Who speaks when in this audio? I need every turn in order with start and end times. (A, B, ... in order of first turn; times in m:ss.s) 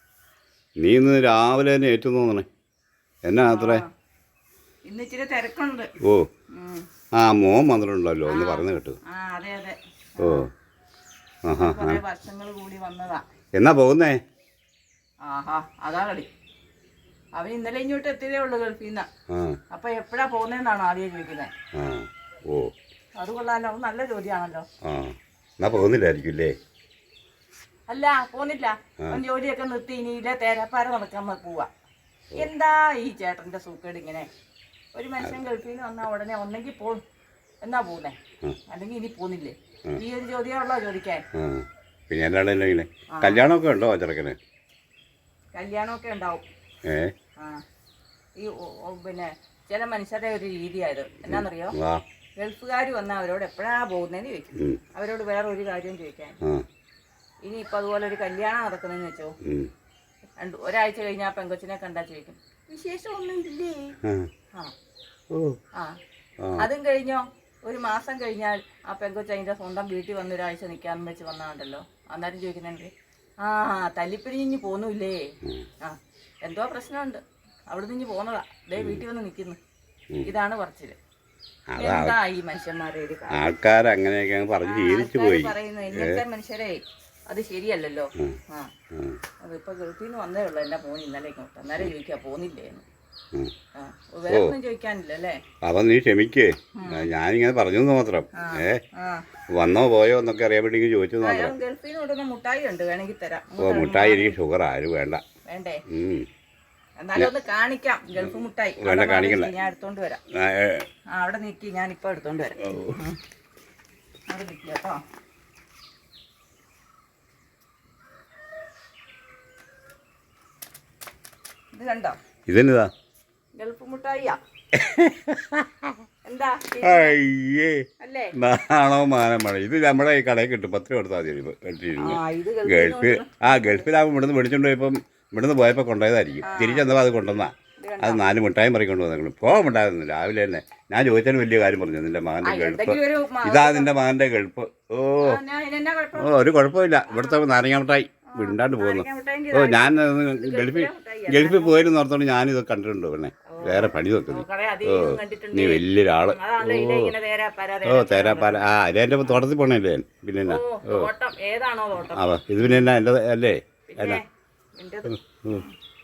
0:00.8-0:02.5 A
0:03.3-0:03.8 A
0:03.5-0:03.9 B
0:04.9-0:05.9 B
0:06.0-0:06.3 A
0:06.5-0:06.9 B
0:07.2-0:09.0 A
0:08.3-0:10.5 B
0:10.2-0:10.5 A
0:11.4-0:12.0 A
0:11.5-0:13.2 B
0:13.6-0:14.2 A
0:15.2-0:16.3 B
0:17.4-0:19.1 B
0:19.3-0:19.6 A
0:19.7-0:21.5 B
0:21.8-0:22.7 A
0:23.2-0:24.6 B
0:24.8-0:26.6 A
0:27.9-0:31.7 B
0:32.4-0:34.3 B
0:35.0-0:37.0 B
0:37.6-0:38.2 B
0:38.7-0:41.2 B
0:41.4-0:44.4 A
0:43.1-0:43.5 B
0:45.5-0:46.5 B
0:46.9-0:47.1 A
0:47.4-0:47.6 B
0:48.4-0:51.8 B
0:51.3-0:52.0 A
0:52.4-0:56.4 B
0:57.4-0:59.3 B
0:59.4-0:59.7 A
1:00.4-1:04.0 B
1:05.3-1:05.6 A
1:06.4-1:06.7 A
1:06.6-1:15.2 B
1:15.8-1:19.6 B
1:18.8-1:19.0 A
1:20.2-1:21.0 B
1:21.7-1:22.2 A
1:21.8-1:23.5 B
1:23.3-1:26.2 A
1:24.6-1:28.7 B
1:28.9-1:29.2 A
1:29.4-1:32.8 B
1:33.8-1:35.4 B
1:34.3-1:34.6 A
1:35.6-1:38.8 A
1:36.8-1:37.1 B
1:38.4-1:39.2 B
1:39.5-1:41.6 A
1:41.2-1:44.4 B
1:43.6-1:45.2 A
1:45.4-1:45.8 B
1:45.9-1:46.3 A
1:47.0-1:50.2 B
1:48.8-1:49.5 A
1:50.3-1:50.8 A
1:51.1-1:53.2 B
1:52.6-1:53.0 A
1:54.3-1:55.0 B
2:01.7-2:02.2 B
2:02.5-2:02.9 A
2:03.6-2:04.4 B
2:04.7-2:06.0 A
2:06.2-2:07.2 B
2:06.8-2:25.4 A
2:08.0-2:08.4 B
2:12.0-2:13.9 B
2:16.4-2:16.9 B
2:17.8-2:18.2 B
2:22.4-2:23.9 B
2:25.2-2:26.4 B
2:26.2-2:37.1 A
2:27.1-2:27.4 B
2:28.3-2:31.9 B
2:33.5-2:38.7 B
2:37.8-2:41.1 A
2:40.5-2:42.9 B
2:42.1-2:44.2 A
2:43.9-2:44.2 B
2:44.8-2:45.8 B
2:45.3-2:45.6 A